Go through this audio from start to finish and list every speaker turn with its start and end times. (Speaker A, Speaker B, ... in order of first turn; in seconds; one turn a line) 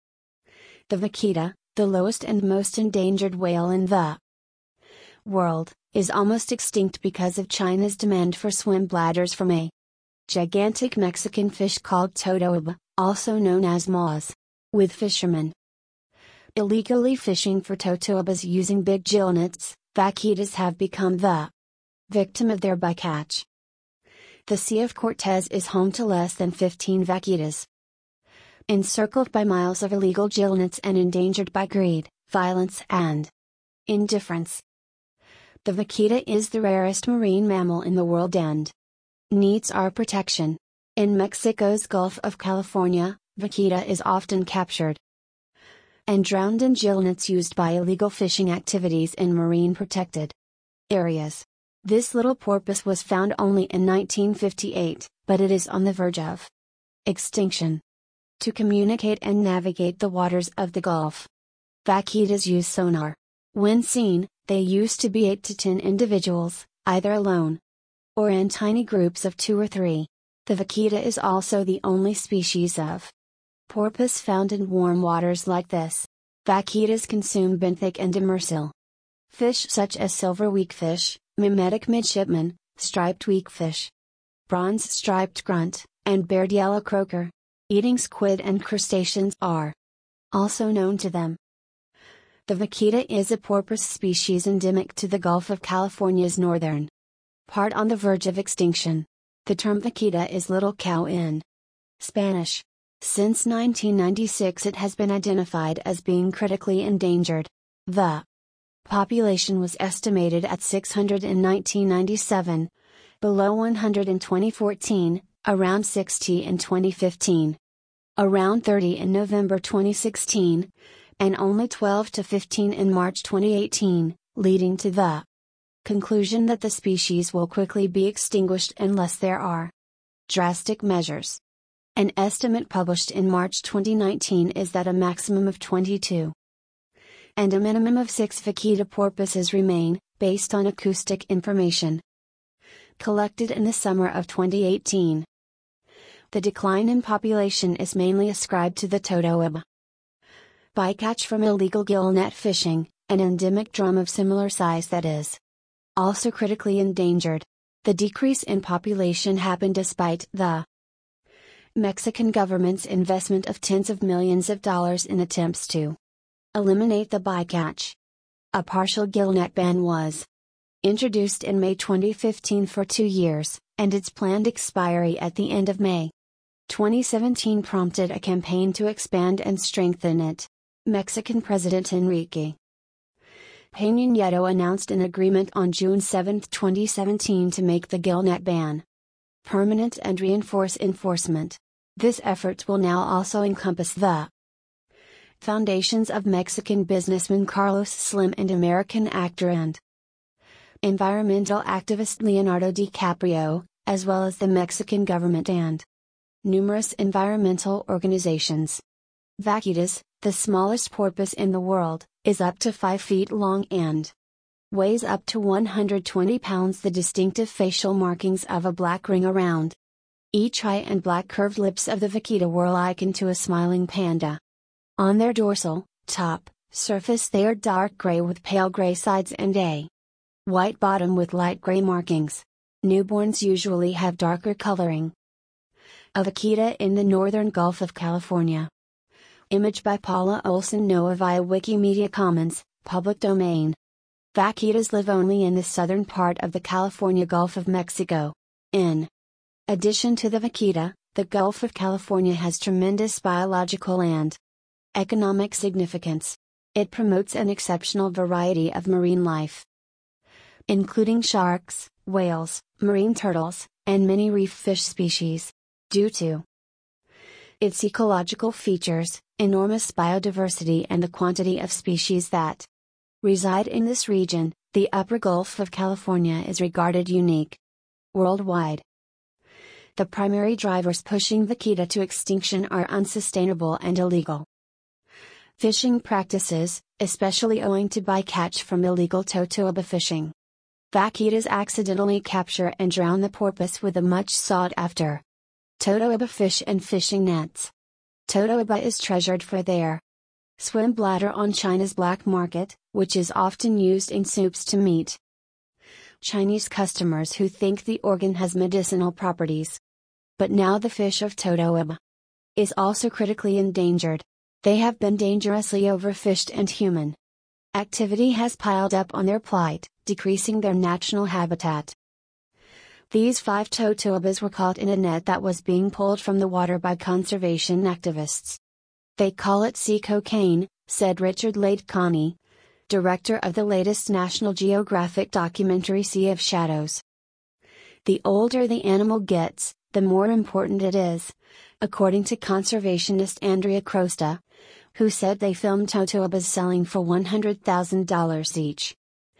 Speaker A: 0.9-4.2
Speaker A: 5.2-9.7
Speaker A: 10.3-15.5
Speaker A: 16.5-21.5
Speaker A: 22.1-23.5
Speaker A: 24.5-27.7
Speaker A: 28.7-33.3
Speaker A: 33.9-34.6
Speaker A: 35.6-38.7
Speaker A: 39.3-45.0
Speaker A: 46.1-50.3
Speaker A: 50.9-56.5
Speaker A: 57.0-57.8
Speaker A: 58.4-61.3
Speaker A: 61.8-67.6
Speaker A: 68.2-73.1
Speaker A: 73.7-78.7
Speaker A: 79.3-83.9
Speaker A: 84.5-89.8
Speaker A: 90.3-91.4
Speaker A: 92.5-96.9
Speaker A: 97.5-101.4
Speaker A: 102.0-108.2
Speaker A: 108.8-117.6
Speaker A: 118.2-125.2
Speaker A: 125.8-129.7
Speaker A: 130.3-131.4
Speaker A: 131.9-136.3
Speaker A: 137.4-142.0
Speaker A: 143.0-145.3
Speaker A: 146.3-149.6
Speaker A: 150.7-155.4
Speaker A: 156.0-160.7
Speaker A: 161.8-166.0
Speaker A: 166.5-168.0
Speaker A: 168.5-170.3
Speaker A: 170.8-176.1
Speaker A: 176.7-182.6
Speaker A: 183.7-188.8
Speaker A: 189.4-194.3
Speaker A: 195.4-199.8
Speaker A: 200.8-205.8
Speaker A: 206.4-208.8
Speaker A: 209.4-214.1
Speaker A: 214.7-219.8
Speaker A: 220.3-224.4
Speaker A: 225.0-229.9
Speaker A: 230.4-235.1
Speaker A: 236.1-238.7
Speaker A: 239.5-243.8
Speaker A: 244.3-249.1
Speaker A: 249.7-254.4
Speaker A: 254.9-259.7
Speaker A: 260.7-266.4
Speaker A: 267.6-272.7
Speaker A: 273.2-277.6
Speaker A: 278.1-278.8
Speaker A: 279.9-284.5
Speaker A: 285.6-290.3
Speaker A: 290.9-295.2
Speaker A: 295.8-297.7
Speaker A: 298.3-300.0
Speaker A: 300.6-305.2
Speaker A: 306.2-309.8
Speaker A: 310.4-312.0
Speaker A: 312.6-317.2
Speaker A: 317.7-321.9
Speaker A: 323.1-328.6
Speaker A: 329.2-332.4
Speaker A: 332.9-337.0
Speaker A: 338.0-344.4
Speaker A: 344.9-349.0